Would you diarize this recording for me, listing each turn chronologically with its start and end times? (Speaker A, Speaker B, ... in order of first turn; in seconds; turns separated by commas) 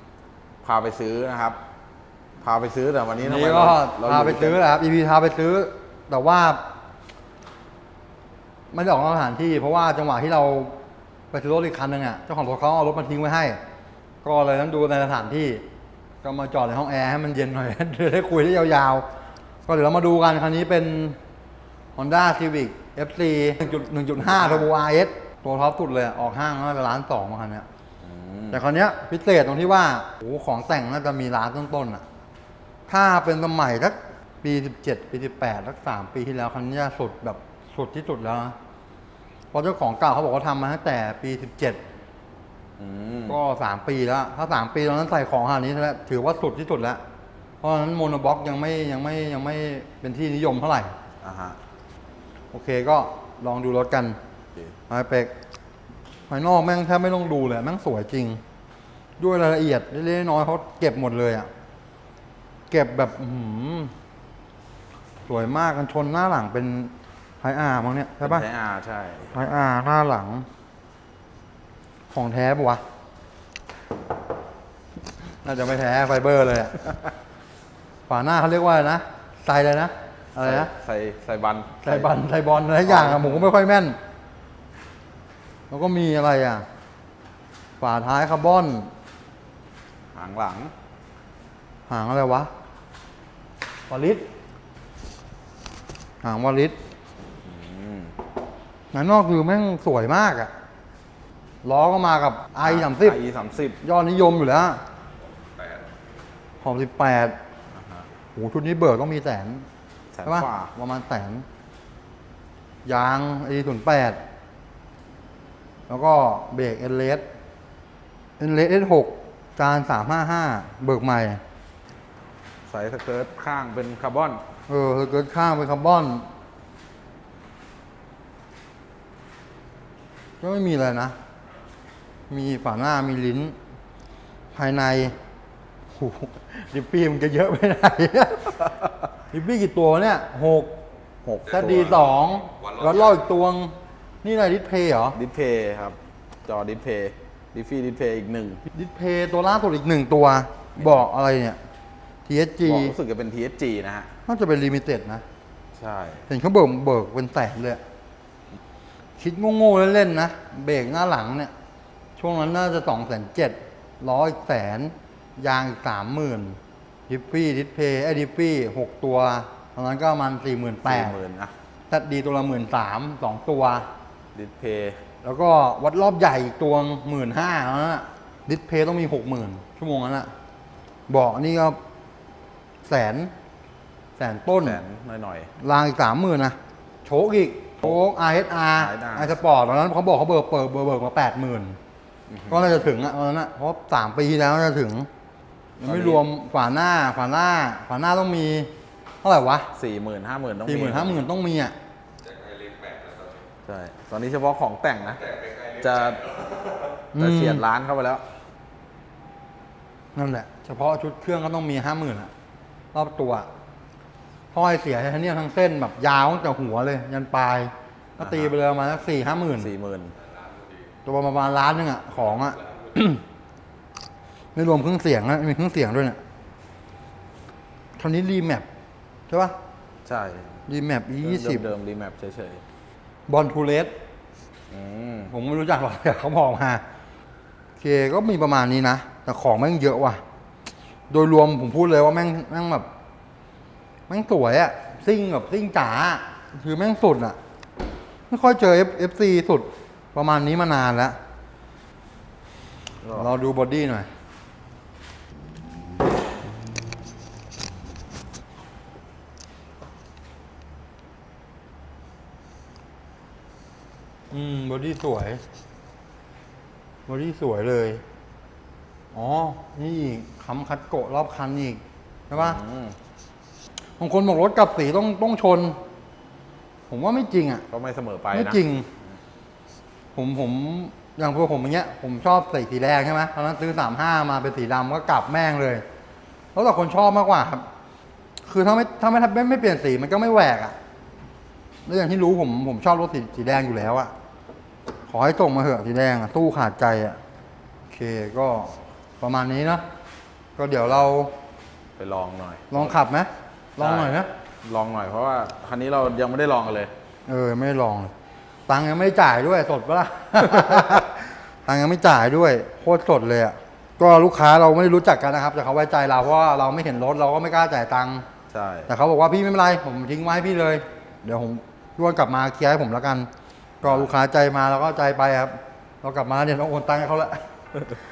Speaker A: 0.6-1.6, Speaker A: 2.4-4.6, Speaker B: 3.2-6.6, Speaker B: 8.7-10.7, Speaker B: 11.3-13.6, Speaker B: 14.2-15.6, Speaker B: 16.2-19.1, Speaker B: 19.6-21.2, Speaker B: 21.9-27.6, Speaker A: 28.0-28.6, Speaker B: 28.5-32.0, Speaker B: 32.9-38.5, Speaker B: 39.5-41.8, Speaker A: 42.8-43.4, Speaker B: 43.3-47.0, Speaker B: 47.6-50.9, Speaker A: 51.2-51.6, Speaker B: 52.5-54.2, Speaker B: 54.9-55.3, Speaker B: 56.3-58.4, Speaker B: 59.2-61.5, Speaker B: 62.7-63.9, Speaker B: 65.2-68.4, Speaker A: 68.2-69.4, Speaker B: 69.3-70.5, Speaker B: 72.1-72.8, Speaker B: 75.4-76.8, Speaker B: 78.1-80.7, Speaker A: 80.4-82.1, Speaker B: 81.8-84.0, Speaker A: 82.8-83.5, Speaker B: 85.7-86.7, Speaker B: 87.8-88.9, Speaker A: 90.1-90.7, Speaker B: 91.9-92.5, Speaker B: 93.9-94.2, Speaker B: 96.2-96.8, Speaker A: 97.4-98.1, Speaker B: 98.9-100.5, Speaker B: 101.6-103.2, Speaker A: 102.6-103.8, Speaker B: 103.8-104.8, Speaker B: 106.6-107.4, Speaker A: 107.7-108.0, Speaker B: 108.3-109.7, Speaker A: 110.1-110.7, Speaker B: 110.2-111.4, Speaker B: 112.8-114.2, Speaker B: 115.9-117.2, Speaker B: 118.4-121.4, Speaker A: 122.7-124.4, Speaker B: 124.7-126.3, Speaker B: 130.4-131.2, Speaker B: 132.3-133.6, Speaker B: 134.5-135.1, Speaker B: 135.9-138.7, Speaker B: 139.3-140.7, Speaker A: 141.2-142.1, Speaker B: 141.4-145.2, Speaker A: 145.1-148.6, Speaker B: 148.7-151.6, Speaker B: 152.2-152.9, Speaker A: 152.6-154.1, Speaker B: 154.2-155.2, Speaker A: 155.8-156.3, Speaker B: 156.3-157.8, Speaker B: 159.2-161.5, Speaker B: 162.2-171.2, Speaker A: 170.8-171.5, Speaker B: 171.9-173.9, Speaker A: 174.3-175.0, Speaker B: 175.2-180.3, Speaker B: 181.1-181.8, Speaker B: 182.8-183.3, Speaker B: 184.2-184.8, Speaker A: 184.6-185.5, Speaker B: 185.6-191.8, Speaker A: 188.8-189.3, Speaker A: 192.3-192.8, Speaker B: 192.5-195.1, Speaker B: 195.8-198.7, Speaker A: 195.8-196.2, Speaker B: 199.2-199.7, Speaker A: 199.7-201.3, Speaker B: 200.7-201.7, Speaker A: 203.6-208.2, Speaker B: 207.1-207.6, Speaker B: 210.1-212.3, Speaker B: 212.9-213.5, Speaker B: 214.5-219.7, Speaker A: 218.2-218.5, Speaker A: 219.6-220.1, Speaker B: 221.0-223.2, Speaker B: 224.5-226.2, Speaker B: 228.0-228.7, Speaker B: 229.3-229.6, Speaker A: 230.0-230.6, Speaker B: 230.7-231.6, Speaker A: 231.2-232.6, Speaker B: 233.3-233.9, Speaker A: 234.7-235.3, Speaker B: 235.3-236.8, Speaker B: 237.8-240.2, Speaker B: 241.1-242.9, Speaker B: 244.1-247.4, Speaker B: 248.3-251.2, Speaker A: 253.0-253.3, Speaker B: 253.2-254.1, Speaker B: 264.3-265.4, Speaker B: 267.1-268.0, Speaker B: 269.1-272.6, Speaker A: 272.3-272.9, Speaker B: 274.0-275.8, Speaker B: 276.9-277.6, Speaker A: 277.7-278.6, Speaker B: 278.3-278.9, Speaker B: 280.1-285.8, Speaker B: 286.5-287.6, Speaker B: 288.4-290.7, Speaker B: 291.9-294.1, Speaker B: 295.1-297.2, Speaker B: 297.9-299.8, Speaker B: 300.6-301.3, Speaker A: 302.0-302.9, Speaker B: 302.7-304.3, Speaker A: 303.8-306.9, Speaker B: 307.2-308.1, Speaker B: 308.7-318.2, Speaker A: 318.5-318.9, Speaker B: 318.9-323.3, Speaker B: 323.8-327.4, Speaker A: 323.8-324.1